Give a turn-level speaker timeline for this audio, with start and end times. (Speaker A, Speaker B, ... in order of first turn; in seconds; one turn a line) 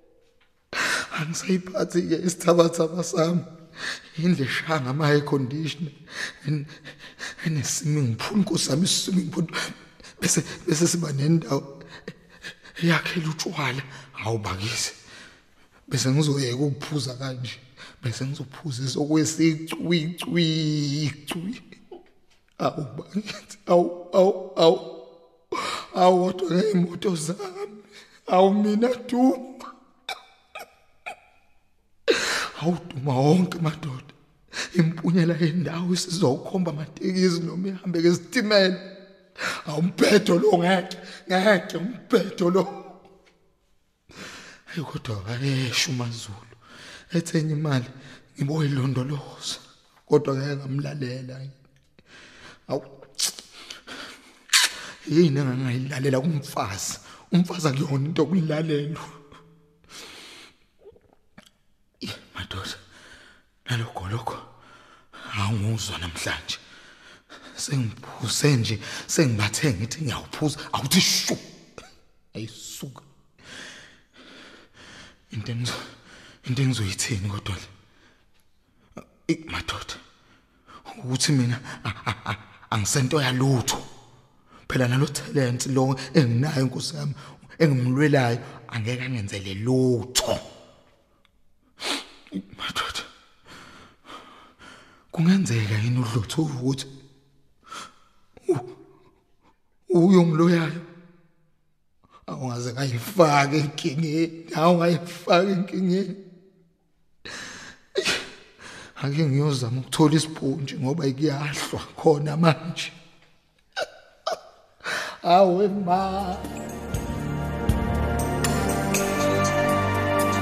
Speaker A: 0.8-3.5
Speaker A: 4.2-6.8
Speaker A: 7.4-11.7
Speaker A: 12.8-15.0
Speaker A: 15.9-21.6
Speaker A: 22.6-25.0
Speaker A: 25.5-29.7
Speaker A: 32.1-34.1
Speaker A: 34.7-38.9
Speaker A: 39.5-43.0
Speaker A: 44.7-46.5
Speaker A: 47.1-51.5
Speaker A: 52.7-53.4
Speaker A: 55.0-59.2
Speaker A: 62.0-62.8
Speaker A: 63.7-64.5
Speaker A: 65.3-66.6
Speaker A: 67.6-71.5
Speaker A: 72.3-73.1
Speaker A: 75.3-75.8
Speaker A: 76.4-77.7
Speaker A: 79.2-80.0
Speaker A: 80.9-83.9
Speaker A: 84.7-90.4
Speaker A: 92.3-93.1
Speaker A: 95.1-96.9
Speaker A: 99.9-100.8
Speaker A: 102.3-106.2
Speaker A: 108.0-108.2
Speaker A: 109.0-113.0
Speaker A: 115.2-116.5